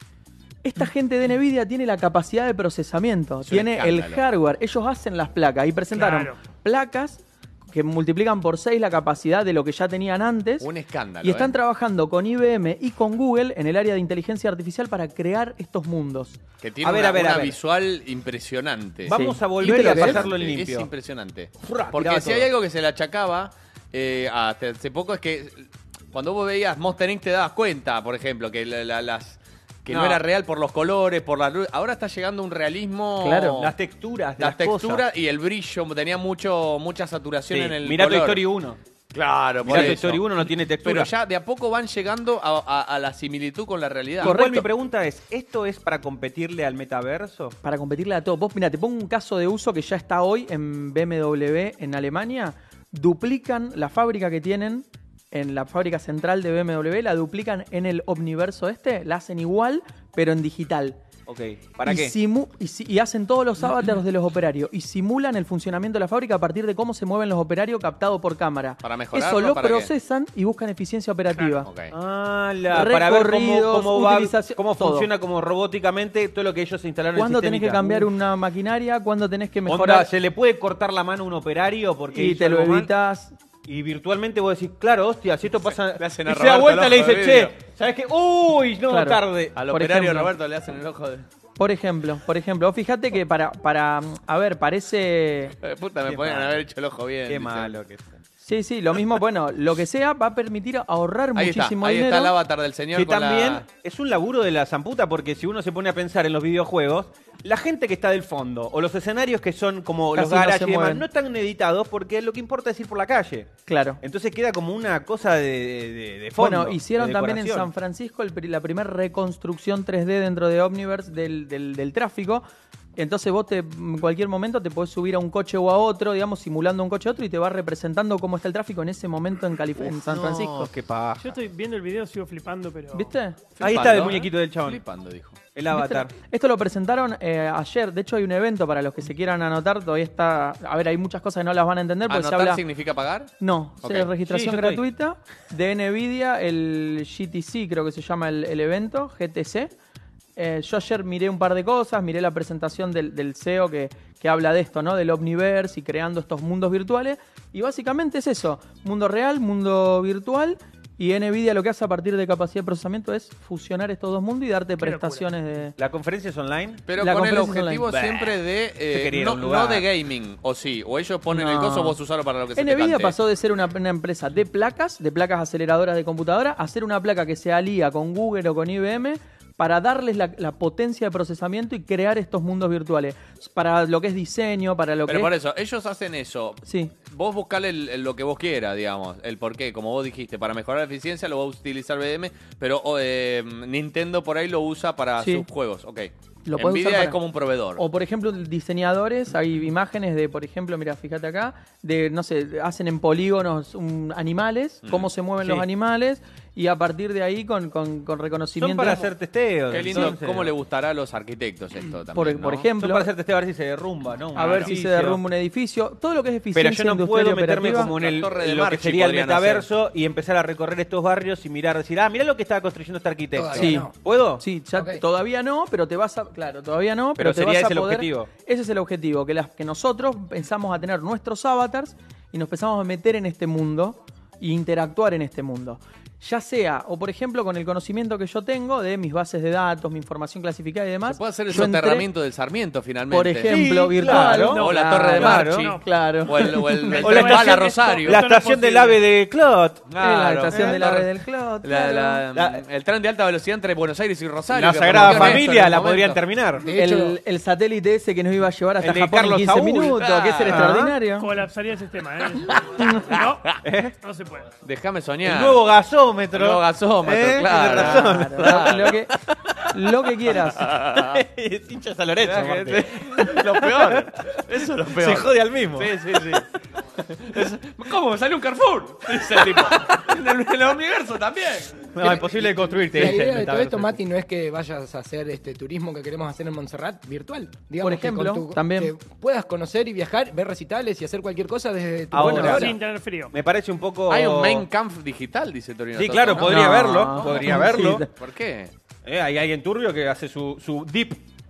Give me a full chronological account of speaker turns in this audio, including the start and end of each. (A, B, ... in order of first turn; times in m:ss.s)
0:00.6-0:10.7 A
0:03.4-0:04.2 B
0:05.9-0:06.4 C
0:10.6-0:11.6 B
0:11.2-0:16.4 A
0:16.6-0:33.7 B
0:16.8-0:17.6 D
0:19.0-0:20.9 D
0:19.1-0:20.3 A
0:21.6-0:22.5 D
0:29.9-0:30.2 D
0:33.2-0:33.6 A
0:33.6-0:35.0 D
0:34.4-0:38.4 B
0:37.5-0:38.8 D
0:39.1-0:44.4 B
0:39.6-0:41.1 D
0:39.7-0:40.0 A
0:44.2-0:47.6 D
0:44.2-0:44.7 A
0:47.6-1:01.0 A
1:01.3-1:02.2 D
1:01.8-1:11.7 A
1:08.8-1:09.9 B
1:11.3-1:11.6 C
1:11.6-1:11.9 B
1:11.9-1:18.1 D
1:12.7-1:15.1 A
1:17.1-1:20.1 A
1:19.7-1:22.9 D
1:22.1-1:23.3 A
1:23.7-1:30.2 D
1:25.6-1:27.5 B
1:28.9-1:29.2 A
1:29.6-1:31.3 B
1:29.7-1:30.3 A
1:31.6-1:35.6 A
1:35.6-1:37.7 B
1:36.1-1:36.6 D
1:37.3-1:38.2 D
1:38.4-1:42.4 A
1:41.4-1:43.6 B
1:42.9-1:57.7 D
1:50.1-1:51.0 A
1:53.7-1:54.0 A
1:56.4-2:02.4 A
2:03.0-2:10.7 A
2:09.8-2:11.2 D
2:11.2-2:13.2 C
2:12.9-2:13.4 A
2:13.6-2:15.4 B
2:13.6-2:14.8 D
2:15.6-2:16.1 D
2:15.7-2:22.6 A
2:22.1-2:23.3 B
2:23.4-2:29.7 A
2:23.8-2:24.1 B
2:24.2-2:24.8 D
2:30.4-2:45.8 A
2:44.8-2:45.3 C
2:45.8-2:46.8 D
2:46.9-2:53.2 B
2:47.0-2:47.9 A
2:48.9-2:49.9 D
2:51.3-2:52.0 A
2:52.5-3:05.3 A
3:05.1-3:17.8 B
3:06.6-3:06.9 A
3:15.2-3:15.5 A
3:16.5-3:17.2 A
3:17.8-3:29.1 A
3:24.8-3:25.6 B
3:28.6-3:30.5 D
3:29.7-3:32.7 B
3:32.1-3:33.1 A
3:32.8-3:35.2 D
3:34.4-3:37.9 A
3:34.4-3:34.7 B
3:36.5-3:44.4 D
3:37.6-3:39.7 B
3:43.4-3:43.9 E
3:43.6-4:02.1 A
3:44.8-3:45.0 E
3:47.2-3:48.3 D
4:01.1-4:03.7 B
4:03.1-4:07.0 A
4:03.5-4:05.7 D
4:04.4-4:08.2 B
4:06.5-4:09.0 C
4:07.0-4:11.1 D
4:10.0-4:12.2 A
4:10.5-4:11.0 B
4:11.6-4:16.2 B
4:12.3-4:12.6 D
4:14.5-4:16.7 D
4:14.9-4:15.4 A
4:16.6-4:17.2 E
4:16.7-4:21.3 A
4:18.8-4:21.0 D
4:20.0-4:20.7 B
4:21.2-4:24.5 C
4:22.4-4:23.6 B
4:22.8-4:23.2 A
4:23.6-4:24.0 D
4:24.6-4:25.6 B
4:25.2-4:28.5 D
4:26.3-4:31.2 B
4:27.7-4:29.1 A
4:29.7-4:30.7 A
4:30.9-4:34.0 D
4:32.2-4:36.5 B
4:34.9-4:35.9 D
4:37.0-4:41.9 B
4:41.9-4:44.0 D
4:42.0-4:42.4 E
4:42.9-4:52.7 E
4:47.8-4:48.9 A
4:52.1-4:52.7 D
4:52.2-4:52.6 A
4:52.5-4:53.3 C
4:53.3-4:54.7 D
4:54.1-4:58.7 B
4:56.0-4:58.0 D
4:56.3-4:58.1 A
4:59.1-5:01.2 D